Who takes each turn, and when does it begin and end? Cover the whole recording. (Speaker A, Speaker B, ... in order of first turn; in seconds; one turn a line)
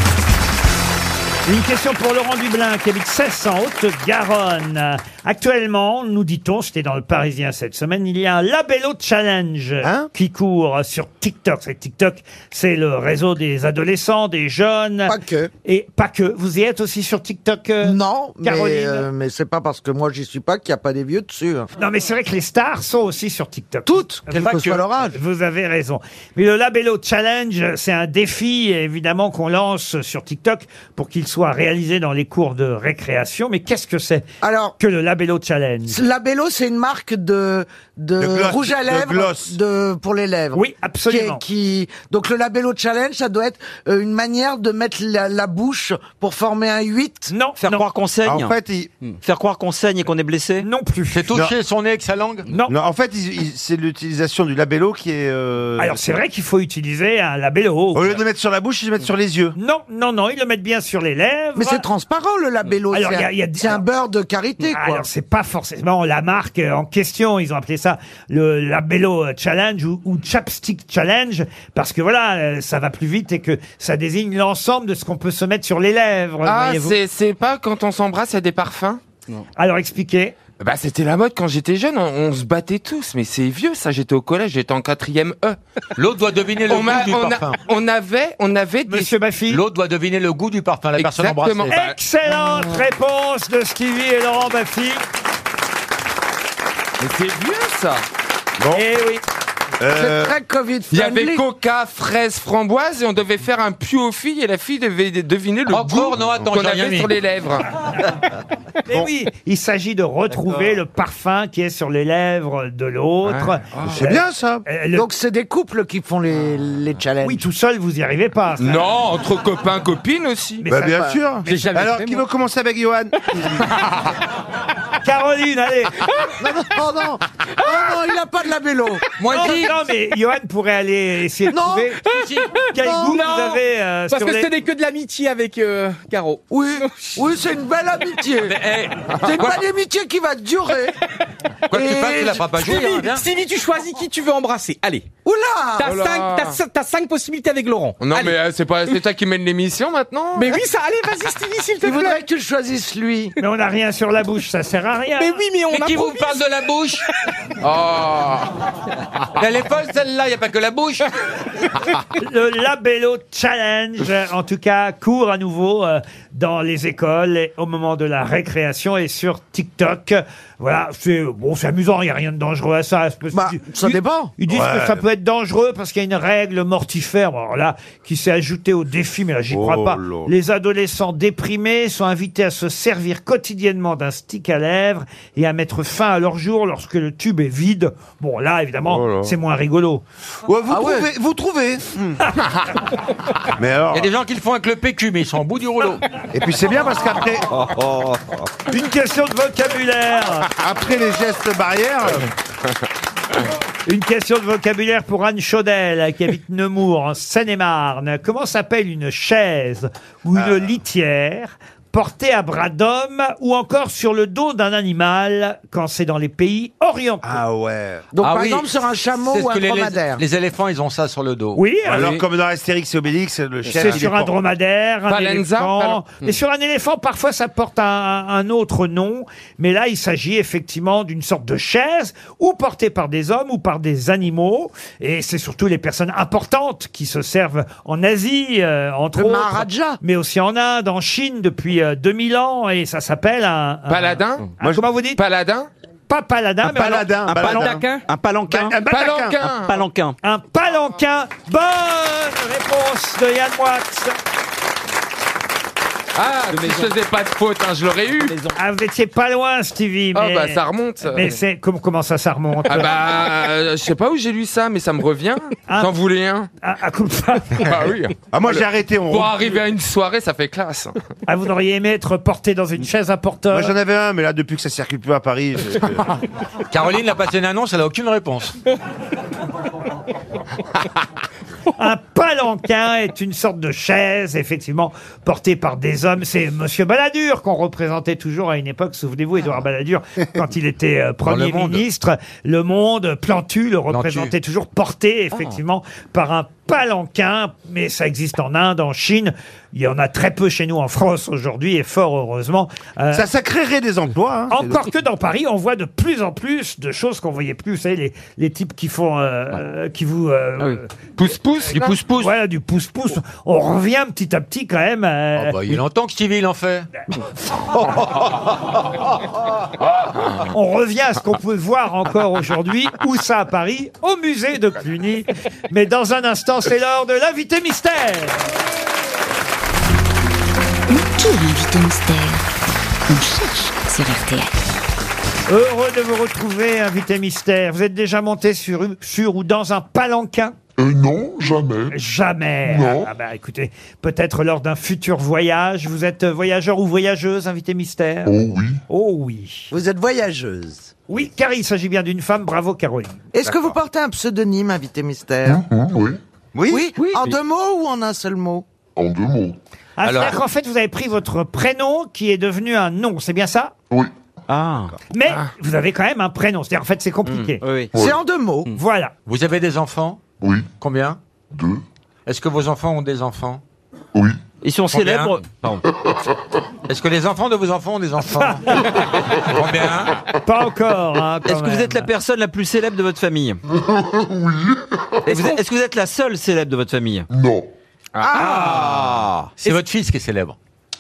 Speaker A: 1.4-19.1
Speaker B: 9.8-10.1
Speaker C: 15.1-15.5
Speaker C: 17.8-21.7
Speaker A: 21.8-36.0
Speaker C: 23.9-25.2
Speaker D: 24.3-24.8
Speaker C: 34.4-34.7
Speaker C: 35.9-47.3
Speaker B: 38.2-39.6
Speaker A: 40.5-41.4
Speaker A: 47.3-47.9
Speaker E: 47.6-48.6
Speaker B: 48.2-48.9
Speaker E: 49.2-50.7
Speaker A: 50.6-51.3
Speaker D: 51.1-52.5
Speaker A: 52.5-52.7
Speaker B: 52.7-56.0
Speaker A: 55.8-58.1
Speaker B: 57.9-59.5
Speaker A: 59.5-61.8
Speaker C: 61.5-65.0
Speaker A: 62.9-63.8
Speaker A: 64.7-77.0
Speaker F: 76.4-79.0
Speaker A: 79.6-80.3
Speaker F: 80.6-85.6
Speaker D: 86.0-87.6
Speaker F: 86.6-89.1
Speaker A: 88.9-89.6
Speaker D: 89.5-91.8
Speaker F: 91.0-91.9
Speaker A: 91.7-95.0
Speaker F: 97.0-98.0
Speaker B: 98.6-98.9
Speaker A: 98.7-99.2
Speaker B: 99.8-100.3
Speaker C: 99.9-101.5
Speaker F: 100.9-107.7
Speaker D: 105.7-107.1
Speaker A: 108.9-115.1
Speaker F: 113.2-114.0
Speaker B: 113.8-114.6
Speaker C: 114.9-117.4
Speaker A: 117.2-118.8
Speaker F: 118.6-120.7
Speaker A: 120.6-121.7
Speaker B: 120.7-123.7
Speaker G: 121.5-122.2
Speaker A: 125.0-126.0
Speaker C: 126.4-129.1
Speaker D: 129.2-129.7
Speaker A: 129.3-132.0
Speaker C: 131.5-131.9
Speaker G: 132.1-133.6
Speaker A: 132.7-134.5
Speaker C: 132.8-133.2
Speaker G: 134.1-136.4
Speaker C: 136.5-138.6
Speaker D: 138.4-139.6
Speaker C: 139.2-140.9
Speaker C: 141.7-142.4
Speaker D: 141.7-143.2
Speaker G: 142.6-145.1
Speaker C: 145.2-145.9
Speaker G: 145.8-148.3
Speaker F: 145.8-146.6
Speaker F: 148.0-150.5
Speaker G: 150.3-152.2
Speaker C: 151.8-153.3
Speaker A: 153.4-155.4
Speaker G: 155.2-156.6
Speaker D: 155.7-157.1
Speaker F: 157.6-158.5
Speaker D: 159.3-161.1
Speaker A: 162.2-190.0
Speaker C: 173.3-174.3
Speaker B: 174.5-175.0
Speaker B: 179.5-180.3
Speaker B: 190.4-192.2
Speaker C: 190.7-191.1
Speaker B: 193.5-194.1
Speaker D: 193.9-196.0
Speaker B: 196.3-197.5
Speaker E: 197.6-198.4
Speaker A: 198.7-200.5
Speaker B: 200.6-202.3
Speaker A: 203.8-217.4
Speaker B: 210.3-210.6
Speaker B: 217.2-218.0
Speaker C: 218.1-220.2
Speaker D: 218.2-221.6
Speaker A: 221.5-222.1
Speaker B: 221.8-224.3
Speaker A: 223.7-245.2
Speaker F: 225.1-226.1
Speaker C: 239.1-240.0
Speaker F: 243.9-244.5
Speaker F: 245.2-245.7
Speaker A: 246.1-247.8
Speaker B: 246.6-247.8
Speaker E: 247.3-248.8
Speaker G: 247.6-248.0
Speaker B: 248.5-249.4
Speaker F: 248.8-249.8
Speaker E: 249.4-250.2
Speaker A: 250.2-254.2
Speaker F: 256.1-258.4
Speaker G: 256.5-256.8
Speaker A: 258.5-262.9
Speaker F: 260.1-261.4
Speaker F: 262.6-266.5
Speaker A: 265.7-265.9
Speaker A: 266.6-267.7
Speaker F: 267.6-270.9
Speaker B: 268.3-269.3
Speaker A: 271.3-273.7
Speaker B: 273.5-276.1
Speaker D: 276.7-278.5
Speaker A: 281.8-303.3
Speaker D: 291.2-291.8
Speaker D: 293.9-294.3
Speaker B: 303.1-304.8
Speaker A: 304.5-310.9
Speaker F: 311.2-312.0
Speaker A: 311.7-315.6
Speaker E: 311.7-312.2
Speaker D: 315.4-316.9
Speaker A: 320.5-328.4
Speaker H: 330.9-332.4
Speaker H: 333.1-334.5
Speaker A: 335.5-340.6
Speaker I: 340.8-342.0
Speaker A: 341.9-348.3
Speaker I: 342.6-343.1
Speaker I: 348.2-348.8
Speaker A: 348.9-349.7
Speaker C: 349.7-350.9
Speaker A: 351.1-353.2
Speaker C: 353.3-355.6
Speaker I: 355.4-356.2
Speaker B: 356.5-356.9
Speaker C: 356.7-358.6
Speaker I: 358.9-359.6
Speaker A: 360.0-363.7
Speaker D: 360.0-360.4
Speaker E: 364.5-364.9
Speaker A: 365.1-367.6
Speaker E: 367.2-367.9
Speaker C: 367.9-368.7
Speaker A: 368.7-369.1
Speaker D: 369.2-370.2
Speaker I: 370.4-370.7
Speaker D: 370.8-371.2
Speaker I: 371.5-371.8
Speaker D: 372.2-373.6
Speaker E: 374.6-375.8
Speaker D: 374.9-375.4
Speaker D: 376.9-380.2
Speaker A: 378.4-378.9
Speaker A: 380.4-382.1
Speaker E: 381.4-383.6
Speaker I: 383.7-385.5
Speaker E: 385.2-387.3
Speaker I: 387.3-387.7
Speaker F: 388.1-389.0
Speaker C: 388.3-388.7
Speaker E: 388.3-389.7
Speaker D: 389.6-390.6